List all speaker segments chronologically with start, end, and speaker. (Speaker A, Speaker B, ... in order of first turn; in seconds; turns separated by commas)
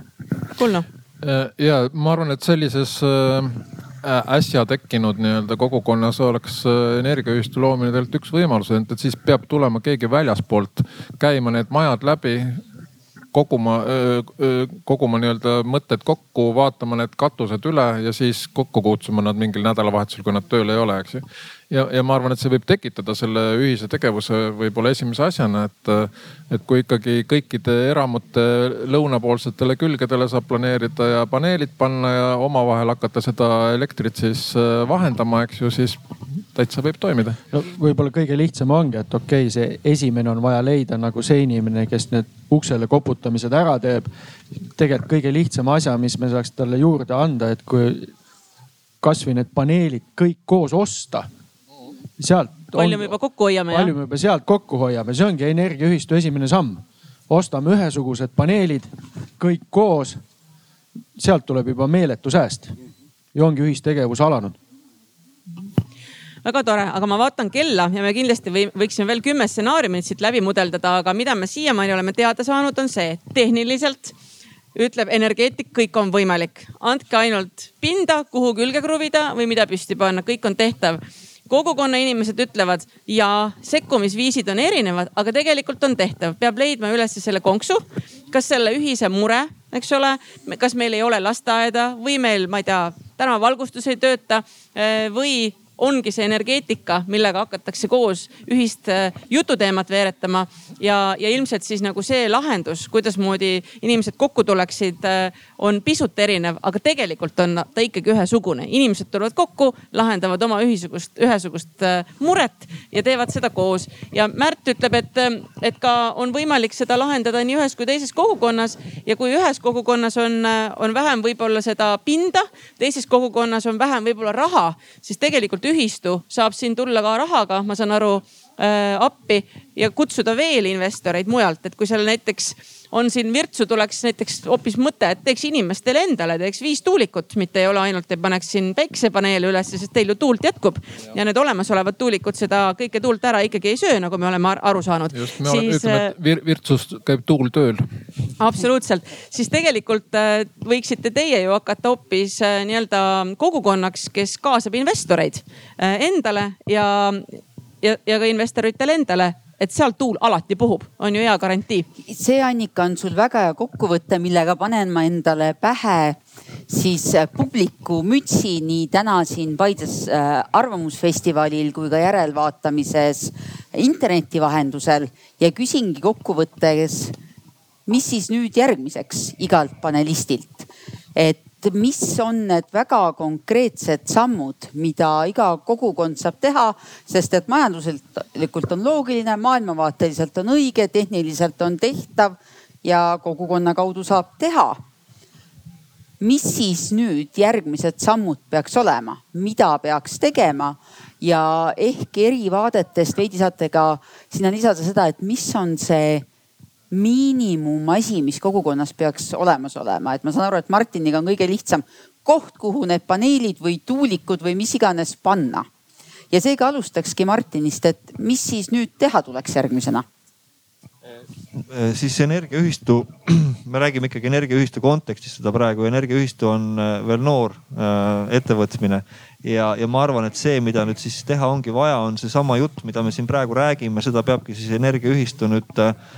Speaker A: 0.6-0.9, Speaker B: 1.2-12.6, Speaker B: 13.3-37.4, Speaker C: 37.5-44.1, Speaker C: 44.6-48.1, Speaker C: 49.0-51.3, Speaker C: 52.2-53.2, Speaker A: 52.7-53.9, Speaker C: 53.7-60.2, Speaker C: 61.1-62.7, Speaker C: 63.3-64.6, Speaker A: 66.4-74.1, Speaker A: 74.7-146.1, Speaker B: 145.1-147.9, Speaker A: 148.4-161.9, Speaker D: 162.1-177.1, Speaker D: 177.9-194.8, Speaker D: 196.2-206.2, Speaker D: 206.9-215.7, Speaker D: 216.3-220.1, Speaker E: 221.5-235.9